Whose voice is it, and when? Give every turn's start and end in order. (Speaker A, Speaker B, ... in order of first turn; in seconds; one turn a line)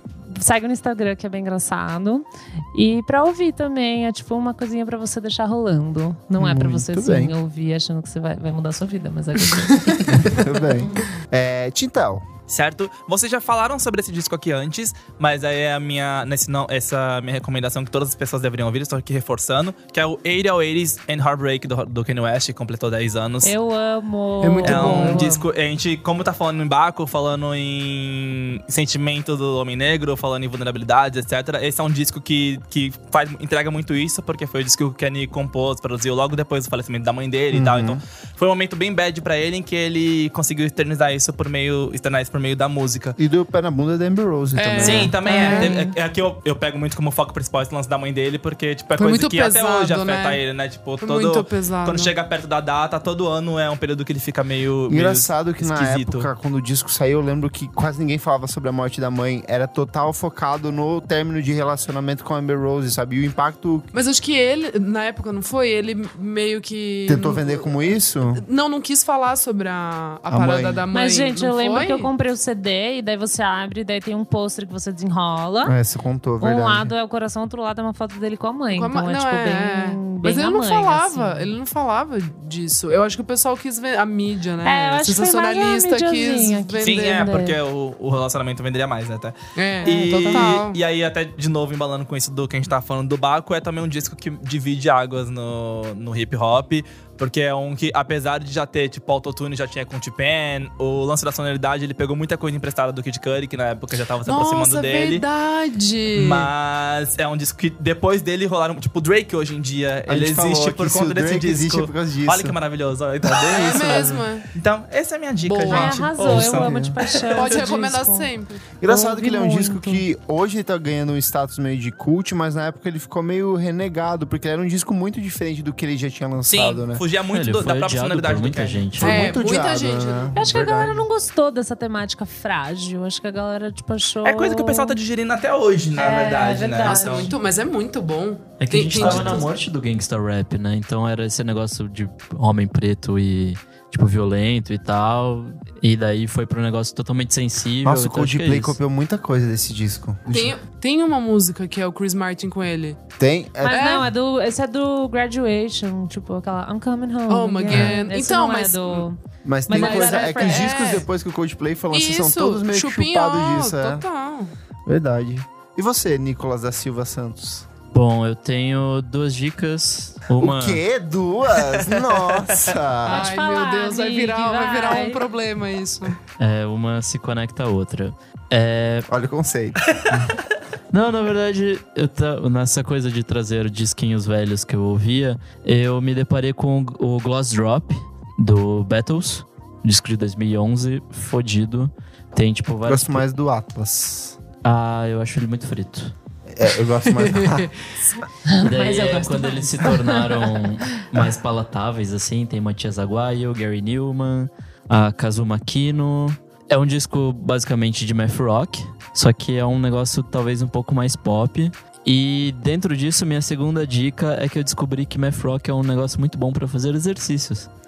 Speaker A: 0.3-10.6
Speaker B: 6.4-7.3
Speaker B: 10.0-12.2
Speaker C: 12.5-23.5
Speaker A: 23.4-25.4
Speaker D: 24.4-25.3
Speaker C: 24.6-43.2
Speaker B: 37.5-38.0
Speaker B: 43.2-45.1
Speaker D: 44.5-45.7
Speaker C: 44.8-56.3
Speaker A: 45.2-45.9
Speaker D: 49.0-50.4
Speaker D: 51.0-52.1
Speaker B: 54.9-63.9
Speaker D: 63.9-67.7
Speaker B: 67.1-68.4
Speaker D: 68.3-72.1
Speaker B: 70.3-70.8
Speaker A: 70.9-75.7
Speaker B: 75.6-76.9
Speaker A: 76.4-81.5
Speaker D: 78.7-87.3
Speaker A: 84.6-87.6
Speaker C: 86.8-105.2
Speaker D: 89.5-90.8
Speaker A: 89.8-90.5
Speaker D: 104.2-106.5
Speaker C: 106.1-117.6
Speaker B: 110.1-112.5
Speaker B: 113.4-114.2
Speaker D: 113.5-114.5
Speaker D: 115.4-116.2
Speaker A: 115.7-118.3
Speaker B: 116.2-117.0
Speaker D: 117.3-118.6
Speaker B: 118.8-127.0
Speaker A: 118.8-120.0
Speaker C: 126.5-129.1
Speaker E: 127.3-129.3
Speaker B: 129.0-131.1
Speaker D: 129.0-130.3
Speaker A: 130.3-135.0
Speaker C: 134.2-137.3
Speaker A: 135.9-137.3
Speaker D: 136.9-139.5
Speaker E: 138.6-148.7
Speaker C: 138.9-139.4
Speaker B: 147.8-150.6
Speaker D: 150.3-153.0
Speaker B: 153.2-154.1
Speaker A: 153.6-161.0
Speaker D: 153.7-154.1
Speaker D: 157.3-159.1
Speaker B: 159.4-164.0
Speaker D: 159.7-161.1
Speaker D: 161.9-164.5
Speaker B: 164.8-167.7
Speaker E: 167.9-170.8
Speaker B: 170.4-173.2
Speaker A: 173.0-175.2
Speaker D: 173.1-176.2
Speaker E: 176.4-179.1
Speaker B: 179.1-180.0
Speaker E: 180.9-193.3
Speaker B: 192.8-194.4
Speaker E: 194.6-196.1
Speaker B: 196.5-198.1
Speaker D: 197.2-197.7
Speaker A: 198.5-200.7
Speaker E: 198.6-217.7